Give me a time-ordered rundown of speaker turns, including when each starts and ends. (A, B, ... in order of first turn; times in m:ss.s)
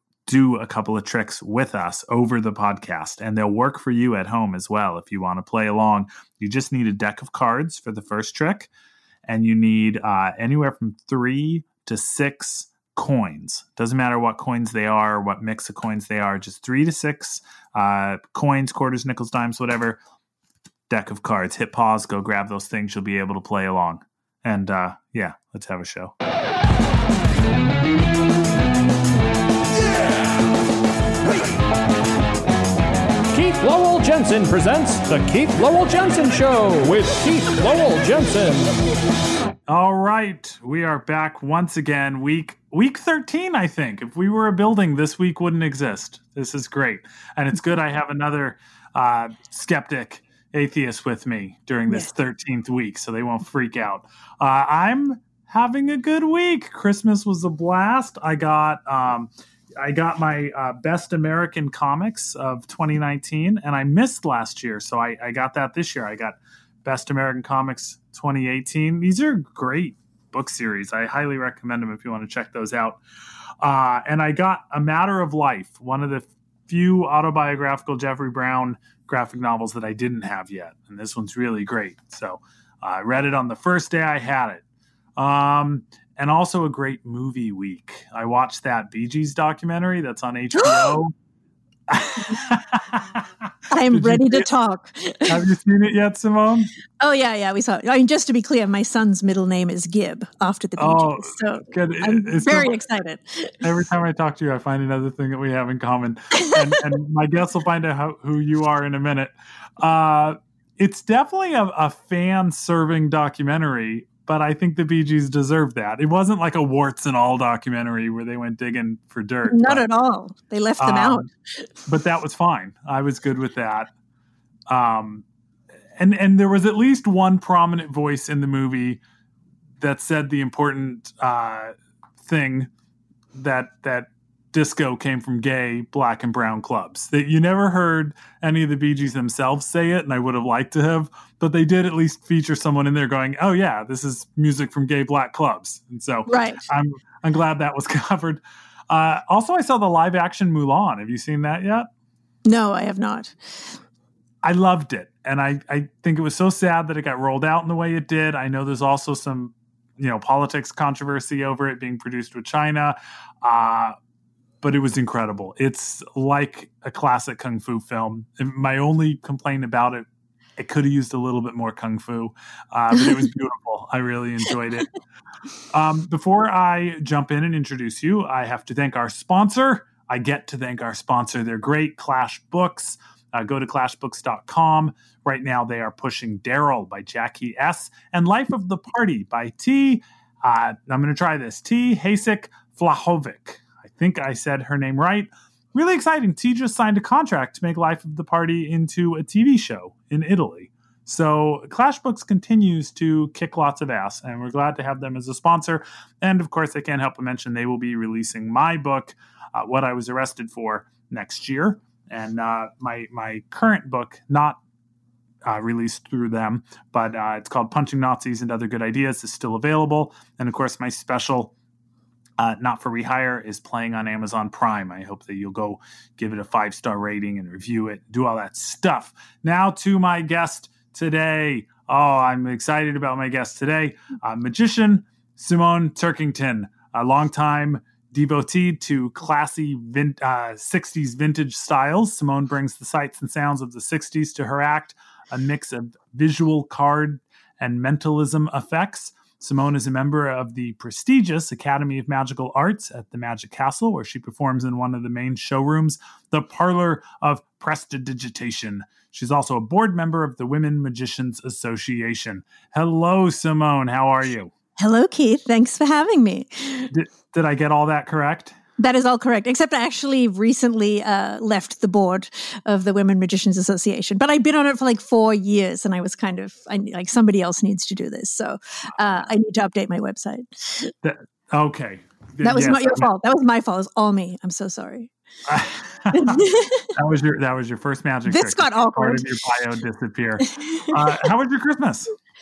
0:00.3-0:08.7 A
0:09.3-0:20.0 A
0:20.9-0:26.1 A
0:33.3-0:38.8 B
0:39.7-1:13.0 A
1:13.6-1:24.6 A
1:25.2-1:31.1 A
1:30.5-1:31.0 C
1:31.9-1:33.3 A
1:33.7-1:35.4 C
1:33.8-1:34.5 A
1:35.3-1:36.7 A
1:37.0-1:43.6 C
1:40.8-1:42.8 A
1:43.6-1:59.9 A
1:46.4-1:46.9 C
1:59.5-2:01.6 C
2:00.8-2:01.3 A
2:01.9-2:03.9 A
2:04.7-2:05.2 A
2:06.0-2:09.0 A
2:09.8-2:12.7 A
2:13.3-2:31.9 A
2:26.3-2:26.6 C
2:32.5-2:33.8 C
2:34.4-2:44.0 A
2:44.6-2:50.1 A
2:50.6-2:54.9 A
2:55.7-3:34.6 A
3:35.5-3:41.5 A
3:42.4-4:24.5 A
4:24.8-4:26.9 C
4:26.9-4:28.6 A
4:28.8-4:40.9 C
4:41.0-4:43.1 A
4:42.4-4:45.1 C
4:45.5-4:52.1 A
4:46.1-4:46.9 C
4:48.3-4:49.3 C
4:50.6-4:51.2 C